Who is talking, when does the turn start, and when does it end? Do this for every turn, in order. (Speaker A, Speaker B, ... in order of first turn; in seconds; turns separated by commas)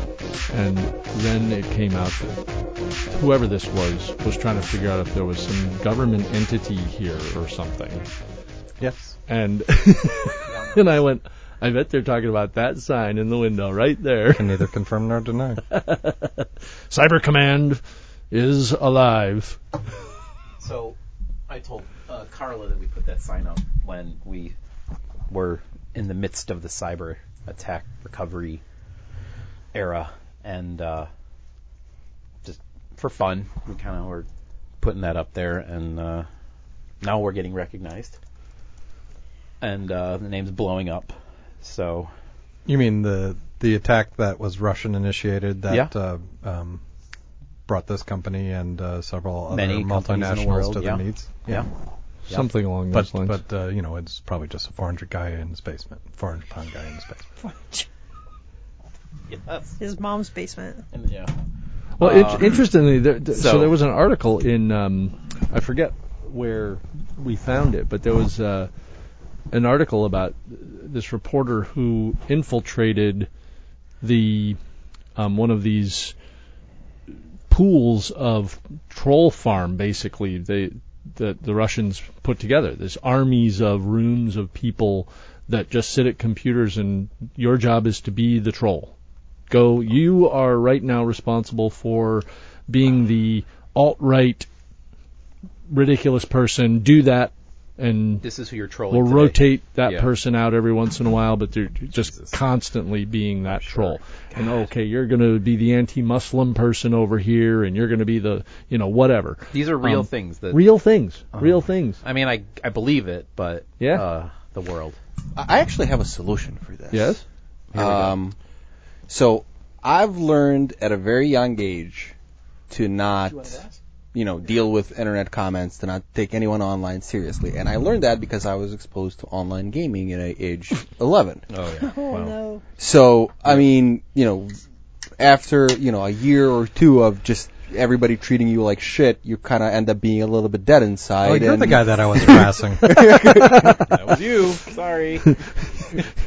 Speaker A: 0.5-2.4, Speaker A: 3.1-8.1, Speaker B: 8.8-9.2, Speaker A: 9.3-14.6, Speaker C: 10.5-10.8, Speaker B: 14.3-15.6, Speaker A: 15.7-19.6, Speaker C: 20.6-21.0, Speaker C: 21.5-24.6, Speaker C: 25.3-28.6, Speaker C: 29.7-31.1, Speaker C: 32.4-34.3, Speaker C: 34.8-36.3, Speaker C: 37.0-38.2, Speaker C: 39.6-42.1, Speaker B: 42.7-46.8, Speaker B: 47.7-51.7, Speaker C: 49.5-51.7, Speaker A: 52.3-53.4, Speaker B: 52.9-57.3, Speaker D: 57.4-57.9, Speaker C: 59.3-59.8, Speaker D: 59.8-60.9, Speaker C: 60.9-61.3, Speaker A: 62.0-68.7, Speaker C: 62.0-62.6, Speaker C: 63.3-63.8, Speaker A: 69.5-73.3, Speaker A: 74.0-74.6, Speaker A: 75.2-76.2, Speaker A: 77.5-88.9, Speaker A: 89.5-94.5, Speaker A: 95.7-98.2, Speaker C: 98.2-100.1, Speaker A: 98.9-112.0, Speaker C: 102.0-102.3, Speaker C: 109.5-110.6, Speaker C: 111.3-115.0, Speaker A: 113.8-114.0, Speaker E: 115.4-117.2, Speaker A: 116.9-117.2, Speaker C: 117.7-118.2, Speaker E: 117.7-118.3, Speaker E: 119.1-122.2, Speaker E: 122.7-123.6, Speaker C: 123.3-123.7, Speaker E: 124.1-131.4, Speaker C: 131.5-132.3, Speaker D: 131.8-132.6, Speaker E: 132.8-134.5, Speaker E: 135.2-144.0, Speaker B: 141.2-143.0, Speaker C: 143.8-145.4